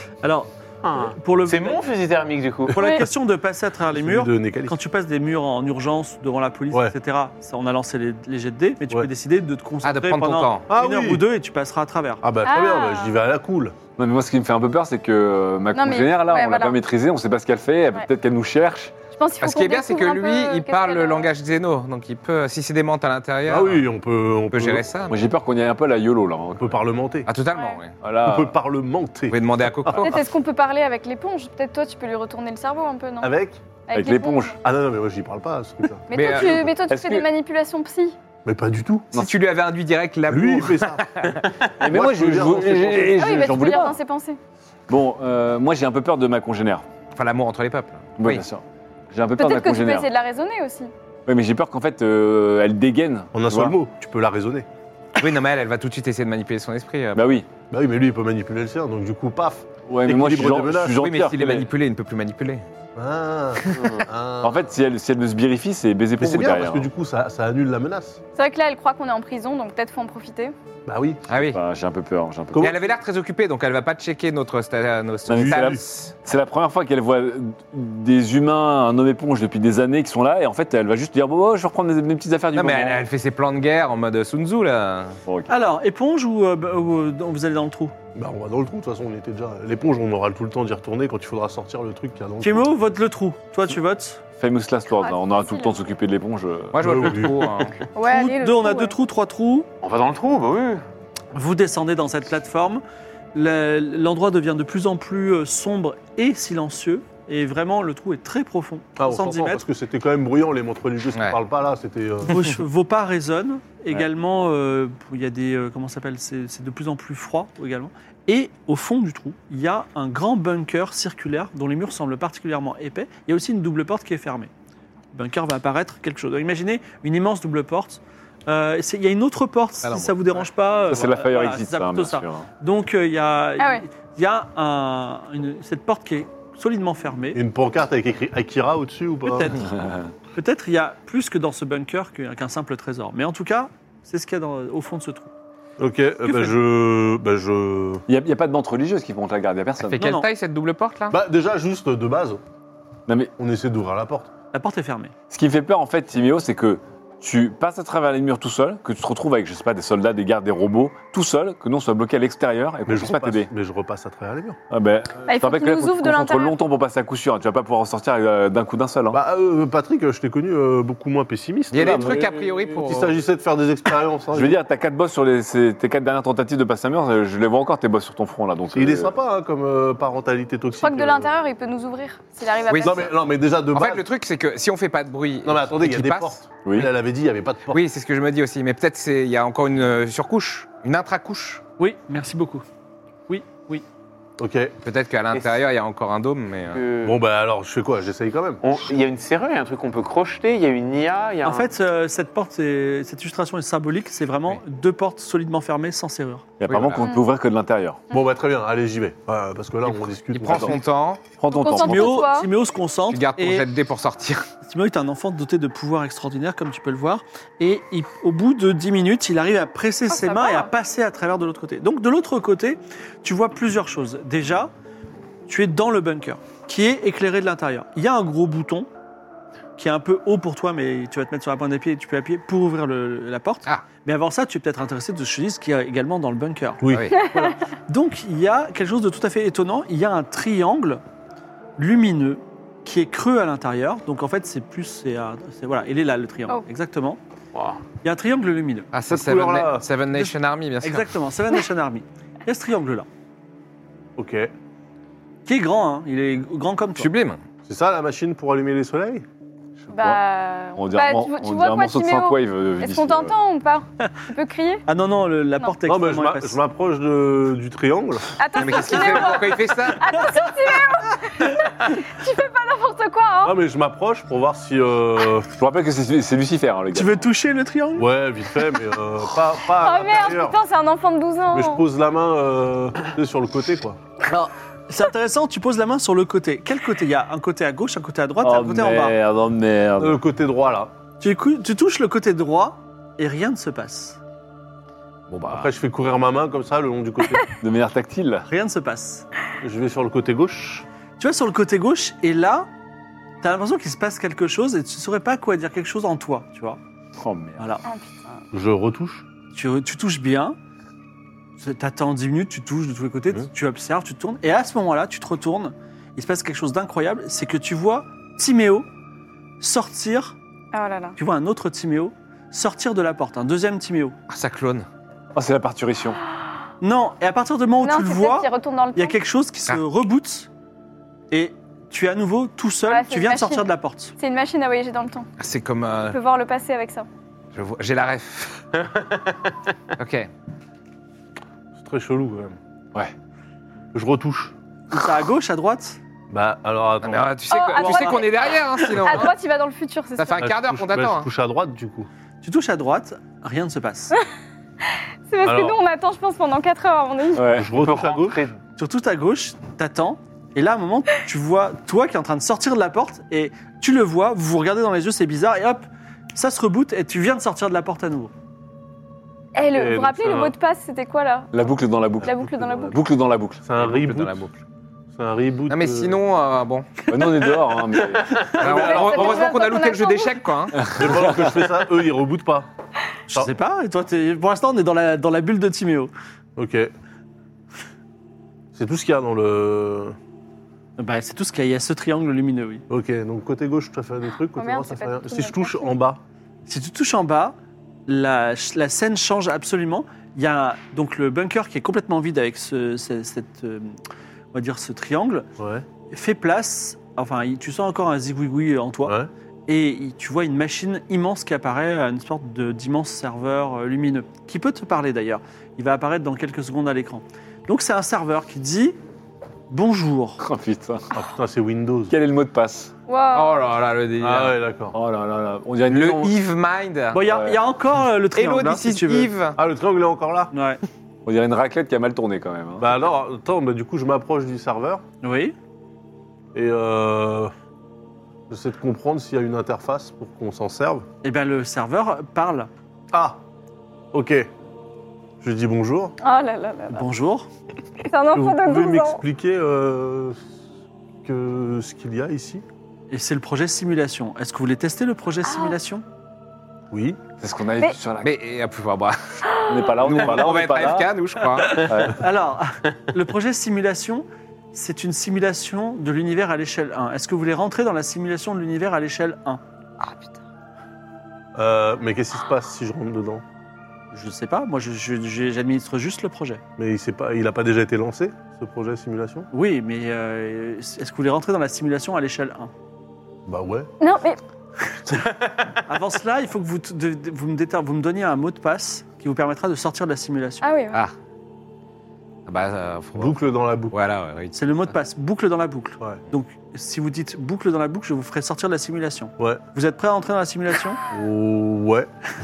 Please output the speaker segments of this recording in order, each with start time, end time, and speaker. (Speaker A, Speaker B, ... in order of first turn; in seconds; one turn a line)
Speaker A: 0.2-1.8
Speaker B: 0.8-2.8
Speaker A: 2.7-12.2
Speaker C: 2.8-3.1
Speaker D: 3.9-4.8
Speaker E: 9.8-10.7
Speaker D: 10.7-11.2
Speaker D: 12.2-13.8
Speaker C: 12.4-13.2
Speaker F: 14.0-18.9
Speaker C: 15.8-16.8
Speaker C: 19.2-21.3
Speaker E: 19.4-23.9
Speaker D: 23.5-24.9
Speaker E: 24.5-25.2
Speaker F: 25.1-26.8
Speaker D: 26.6-27.3
Speaker E: 27.3-27.9
Speaker F: 28.0-28.6
Speaker D: 28.2-30.1
Speaker E: 29.3-30.2
Speaker C: 30.0-34.6
Speaker D: 33.2-33.6
Speaker F: 33.9-34.6
Speaker D: 34.6-36.1
Speaker C: 36.1-38.2
Speaker E: 36.1-36.5
Speaker F: 36.4-37.3
Speaker D: 38.5-39.1
Speaker E: 39.1-41.4
Speaker D: 40.3-43.3
Speaker F: 41.8-44.0
Speaker C: 43.2-44.4
Speaker F: 44.9-46.9
Speaker E: 47.1-48.4
Speaker F: 48.2-50.1
Speaker C: 49.4-50.9
Speaker F: 51.3-53.8
Speaker D: 53.3-54.7
Speaker E: 55.2-57.3
Speaker F: 57.1-57.5
Speaker D: 57.7-61.0
Speaker F: 59.9-61.7
Speaker E: 61.0-62.6
Speaker D: 63.0-64.7
Speaker B: 63.8-64.0
Speaker F: 64.4-66.9
Speaker D: 66.2-68.2
Speaker C: 68.4-70.5
Speaker D: 70.9-71.2
Speaker E: 71.3-71.6
Speaker F: 71.4-72.7
Speaker D: 72.5-72.8
Speaker E: 72.6-76.1
Speaker F: 75.3-83.1
Speaker D: 75.3-75.8
Speaker E: 82.5-85.2
Speaker A: 85.5-87.9
Speaker D: 88.2-92.7
Speaker A: 92.4-94.2
Speaker F: 94.4-97.2
Speaker C: 94.9-95.8
Speaker E: 96.7-97.8
Speaker D: 96.8-97.4
Speaker C: 97.9-99.0
Speaker A: 98.0-99.7
Speaker B: 99.8-100.8
Speaker A: 101.3-102.8
Speaker A: 103.3-109.6
Speaker D: 109.0-112.5
Speaker A: 112.3-124.5
Speaker A: 125.1-137.4
Speaker E: 129.8-130.4
Speaker F: 130.9-132.5
Speaker C: 133.6-133.9
Speaker D: 137.3-139.5
Speaker A: 139.3-139.6
Speaker F: 139.7-140.1
Speaker A: 140.3-145.3
Speaker D: 145.8-148.0
Speaker A: 146.2-146.5
Speaker F: 148.1-150.0
Speaker E: 149.9-151.2
Speaker A: 150.0-150.3
Speaker D: 151.1-152.4
Speaker F: 153.1-153.3
Speaker D: 153.4-154.3
Speaker A: 154.5-155.1
Speaker F: 155.3-163.5
Speaker D: 162.9-164.6
Speaker F: 164.7-169.2
Speaker C: 165.3-166.6
Speaker D: 169.1-174.6
Speaker E: 171.7-173.1
Speaker F: 171.8-172.8
Speaker F: 174.3-179.2
Speaker D: 178.7-181.3
Speaker C: 180.8-183.2
Speaker E: 182.7-183.1
Speaker D: 182.8-184.0
Speaker E: 183.7-186.4
Speaker D: 185.4-187.8
Speaker F: 186.7-186.9
Speaker E: 187.7-191.6
Speaker A: 191.8-192.6
Speaker A: 193.3-193.8
Speaker D: 194.4-194.7
Speaker E: 194.8-196.8
Speaker B: 196.7-197.2
Speaker D: 197.0-198.6
Speaker B: 198.6-201.7
Speaker A: 201.4-206.5
Speaker F: 206.6-208.0
Speaker E: 206.7-207.1
Speaker D: 208.1-210.8
Speaker E: 210.3-211.2
Speaker F: 210.4-210.8
Speaker F: 211.4-212.2
Speaker C: 211.5-212.5
Speaker A: 211.8-213.7
Speaker E: 213.1-214.5
Speaker A: 214.7-224.7
Speaker C: 220.1-220.7
Speaker A: 225.5-228.9
Speaker A: 229.8-241.0
Speaker D: 236.8-237.2
Speaker E: 236.9-237.2
Speaker A: 241.8-247.2
Speaker B: 247.5-247.8
Speaker A: 248.0-248.9
Speaker E: 248.9-251.1
Speaker D: 249.1-249.9
Speaker A: 250.1-253.1
Speaker D: 254.2-254.5
Speaker A: 255.5-257.1
Speaker E: 257.0-257.4
Speaker D: 257.7-259.2
Speaker F: 259.9-260.2
Speaker C: 259.9-264.8
Speaker F: 260.8-263.4
Speaker A: 264.9-266.6
Speaker D: 265.9-268.4
Speaker C: 268.4-273.6
Speaker E: 268.6-270.1
Speaker D: 273.4-275.5
Speaker F: 275.6-277.3
Speaker A: 276.9-278.1
Speaker D: 278.0-280.6
Speaker C: 279.8-281.9
Speaker D: 281.5-284.0
Speaker A: 284.3-289.2
Speaker F: 288.4-290.2
Speaker D: 290.0-290.9
Speaker A: 291.2-294.2
Speaker E: 295.3-295.7
Speaker D: 295.4-297.5
Speaker F: 297.6-298.5
Speaker A: 298.5-299.3
Speaker D: 299.6-300.9
Speaker A: 301.2-302.7
Speaker A: 303.4-306.8
Speaker F: 307.2-307.6
Speaker A: 307.6-307.8
Speaker C: 307.8-308.4
Speaker D: 308.5-309.2
Speaker A: 309.5-310.6
Speaker A: 311.6-318.9
Speaker A: 319.6-320.4
Speaker C: 320.7-321.2
Speaker A: 321.2-324.2
Speaker E: 324.3-324.9
Speaker F: 325.3-326.2
Speaker A: 326.8-330.5
Speaker C: 327.8-329.2
Speaker A: 331.3-334.1
Speaker C: 332.9-335.3
Speaker E: 335.4-336.2
Speaker C: 336.1-337.1
Speaker E: 337.5-338.6
Speaker B: 338.9-339.3
Speaker E: 340.0-340.3
Speaker D: 341.8-342.6
Speaker D: 343.9-344.5
Speaker A: 344.9-346.0
Speaker D: 346.3-347.4
Speaker E: 347.0-349.3
Speaker C: 347.5-350.5
Speaker A: 347.7-348.2
Speaker E: 350.2-351.3
Speaker D: 350.4-352.1
Speaker A: 352.4-354.1
Speaker C: 354.9-357.6
Speaker D: 355.4-355.8
Speaker F: 357.4-357.7
Speaker D: 357.5-358.4
Speaker B: 357.7-358.6
Speaker A: 358.8-368.3
Speaker C: 369.6-371.6
Speaker D: 369.7-370.6
Speaker F: 371.5-372.4
Speaker C: 372.2-373.0
Speaker D: 372.2-372.9
Speaker F: 372.9-373.6
Speaker D: 373.6-374.4
Speaker E: 373.8-374.6
Speaker D: 375.1-376.2
Speaker E: 375.7-376.9
Speaker F: 377.1-378.6
Speaker A: 378.4-379.2
Speaker C: 378.6-380.4
Speaker E: 378.6-380.8
Speaker D: 378.7-379.3
Speaker F: 380.8-381.5
Speaker D: 380.9-382.7
Speaker A: 383.3-386.1
Speaker D: 386.6-386.9
Speaker D: 388.7-390.2
Speaker A: 391.0-392.8
Speaker D: 392.9-396.2
Speaker C: 394.6-396.0
Speaker A: 396.7-397.6
Speaker A: 398.1-404.0
Speaker A: 404.5-405.5
Speaker D: 405.6-405.9
Speaker A: 406.1-409.2
Speaker D: 409.1-409.3
Speaker A: 409.7-419.0
Speaker A: 419.7-420.4
Speaker F: 420.4-421.1
Speaker D: 421.1-422.1
Speaker F: 422.1-422.9
Speaker C: 423.1-423.6
Speaker E: 423.3-424.6
Speaker D: 424.2-425.0
Speaker F: 424.9-426.4
Speaker E: 425.9-427.2
Speaker A: 427.1-429.3
Speaker F: 427.2-427.6
Speaker E: 428.3-429.6
Speaker D: 429.6-430.5
Speaker A: 430.5-430.8
Speaker F: 431.2-432.9
Speaker D: 432.8-435.0
Speaker A: 435.2-435.5
Speaker D: 436.5-437.5
Speaker D: 438.5-441.1
Speaker A: 441.2-442.7
Speaker D: 443.1-443.4
Speaker D: 444.1-444.5
Speaker D: 445.4-446.1
Speaker C: 446.2-447.1
Speaker A: 446.9-447.5
Speaker C: 448.1-449.2
Speaker D: 448.3-450.4
Speaker D: 451.2-452.6
Speaker A: 453.1-456.0
Speaker C: 455.5-455.8
Speaker D: 456.9-457.2
Speaker F: 457.4-458.3
Speaker E: 458.2-459.2
Speaker C: 459.5-459.9
Speaker F: 459.7-461.1
Speaker E: 459.9-461.9
Speaker F: 461.7-462.2
Speaker A: 462.0-469.6
Speaker C: 470.0-470.3
Speaker D: 471.6-473.4
Speaker A: 474.1-476.6
Speaker D: 476.8-479.5
Speaker A: 479.5-482.7
Speaker D: 483.5-483.9
Speaker C: 484.0-484.4
Speaker B: 485.1-485.7
Speaker A: 485.9-490.7
Speaker C: 490.6-491.0
Speaker E: 492.5-494.9
Speaker D: 493.2-494.0
Speaker A: 494.5-501.0
Speaker D: 501.1-502.1